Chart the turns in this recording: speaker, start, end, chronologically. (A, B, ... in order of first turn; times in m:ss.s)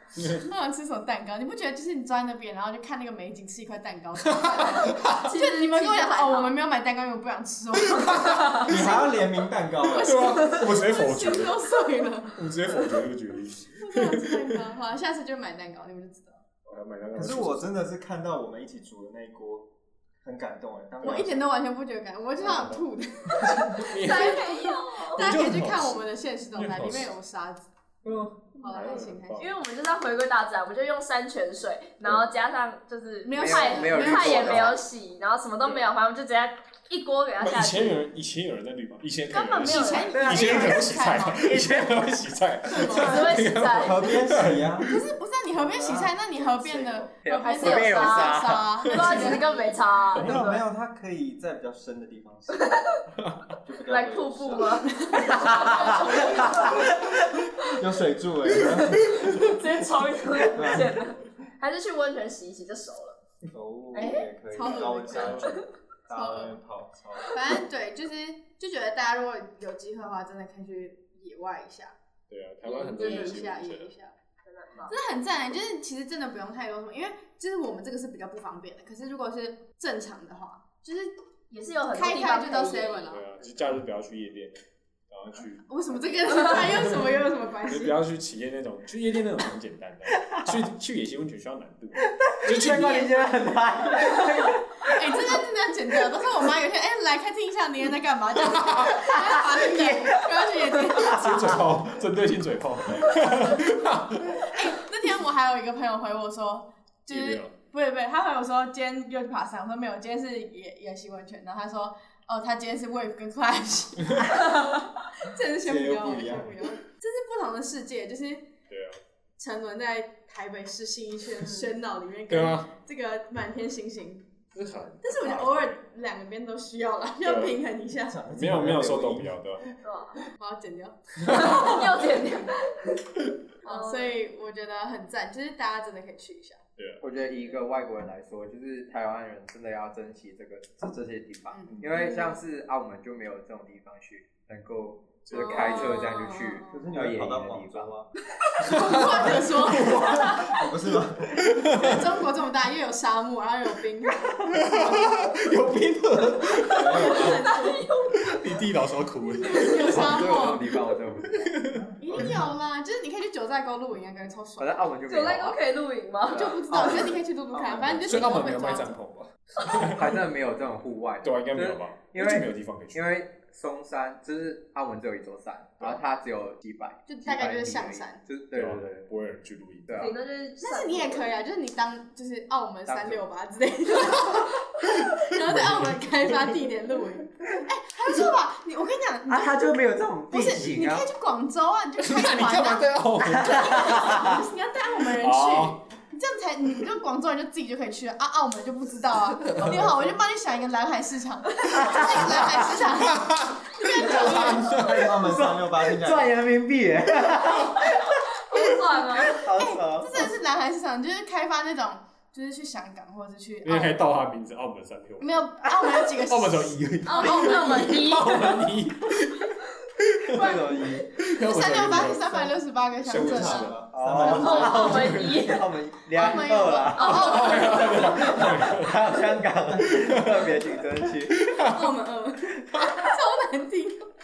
0:00.2-0:00.4 A
0:00.3-0:09.2 B
0:04.2-0:05.2 A
0:05.1-0:06.6 C
0:07.8-0:08.7 A
0:08.6-0:10.4 D
0:09.8-0:12.9 B
0:09.9-0:14.7 A
0:13.8-0:16.4 B
0:16.6-0:17.8 A
0:17.1-0:19.7 D
0:20.2-0:21.4 D
0:21.0-0:21.3 A
0:21.0-0:27.6 B
0:22.4-0:24.5 A
0:23.9-0:25.3 C
0:25.1-0:27.1 A
0:28.0-0:29.5 A
0:28.6-0:29.5 B
0:29.4-0:38.0 C
0:33.2-0:34.8 B
0:33.3-0:34.8 E
0:37.4-0:44.8 A
0:39.3-0:41.5 B
0:39.3-0:40.1 C
0:40.1-0:42.2 E
0:42.7-0:43.4 B
0:42.9-0:44.1 C
0:43.8-0:45.0 D
0:44.8-0:49.7 B
0:45.5-0:47.1 D
0:47.2-0:48.8 E
0:47.3-0:50.6 C
0:48.8-0:49.4 A
0:50.1-0:50.4 A
0:50.1-0:52.8 D
0:52.6-0:52.9 C
0:53.2-0:53.5 A
0:53.6-0:55.0 D
0:53.8-0:56.7 C
0:54.8-0:57.0 B
0:55.3-0:57.2 E
0:57.6-0:59.5 D
0:58.7-0:59.3 A
0:59.2-1:03.2 C
1:00.5-1:01.0 D
1:03.5-1:07.4 D
1:03.9-1:04.3 C
1:04.0-1:05.5 B
1:04.6-1:05.5 A
1:06.1-1:06.6 B
1:07.3-1:11.9 B
1:12.3-1:13.9 A
1:12.6-1:13.4 C
1:12.7-1:14.1 B
1:14.4-1:14.9 C
1:14.9-1:21.1 B
1:21.5-1:23.2 C
1:21.9-1:23.2 B
1:23.1-1:33.1 A
1:25.7-1:28.0 B
1:30.2-1:30.5 E
1:32.0-1:35.2 E
1:32.6-1:33.1 B
1:34.9-1:41.6 B
1:38.4-1:38.9 A
1:39.0-1:41.5 E
1:41.0-1:44.5 A
1:44.4-1:58.5 B
1:47.1-1:47.5 A
1:55.6-1:56.6 D
1:58.7-1:59.0 A
1:59.4-2:04.3 B
2:02.3-2:02.7 A
2:04.5-2:05.8 A
2:05.0-2:08.2 B
2:07.2-2:07.6 A
2:08.0-2:09.6 D
2:08.3-2:09.6 A
2:09.8-2:10.2 C
2:10.3-2:12.1 B
2:11.2-2:13.0 C
2:13.6-2:16.6 B
2:13.6-2:14.2 C
2:16.8-2:17.0 A
2:17.0-2:27.9 E
2:21.5-2:22.3 B
2:25.2-2:25.9 A
2:25.3-2:26.9 B
2:26.7-2:28.1 D
2:28.6-2:30.5 B
2:28.6-2:30.5 A
2:30.1-2:30.6 C
2:30.3-2:31.9 D
2:31.5-2:32.0 A
2:31.7-2:35.5 B
2:34.5-2:37.5 A
2:36.7-2:37.9 B
2:36.8-2:37.4 D
2:37.0-2:38.4 C
2:38.2-2:40.5 A
2:39.4-2:40.7 B
2:39.7-2:41.9 E
2:41.3-2:42.4 A
2:42.0-2:44.9 B
2:44.6-2:45.6 E
2:45.1-2:46.7 C
2:46.3-2:48.9 B
2:46.7-2:47.2 E
2:47.9-2:50.2 A
2:49.6-2:59.1 E
2:51.2-2:53.2 A
2:57.1-2:58.2 B
2:58.5-3:00.1 A
2:59.9-3:00.2 E
3:00.0-3:01.3 C
3:00.6-3:09.6 B
3:02.8-3:03.2 E
3:05.4-3:06.0 A
3:09.3-3:11.1 E
3:10.3-3:25.1 B
3:12.0-3:14.3 A
3:13.2-3:14.4 E
3:15.0-3:15.8 A
3:21.7-3:22.7 E
3:22.8-3:25.1 A
3:24.1-3:30.3 E
3:24.4-3:26.3 D
3:27.7-3:29.4 C
3:29.5-3:34.0 B
3:33.6-3:35.6 A
3:35.2-3:38.1 B
3:36.2-3:40.6 A
3:37.0-3:38.6 C
3:40.3-3:41.0 D
3:41.2-3:45.4 A
3:41.2-3:43.8 B
3:43.0-3:45.0 D
3:43.9-3:51.5 E
3:44.2-3:45.7 C
3:46.1-3:48.4 B
3:46.9-3:48.5 C
3:47.0-3:49.2 A
3:49.8-3:50.6 A
3:51.2-3:52.0 A
3:51.6-3:54.1 B
3:52.8-3:53.1 A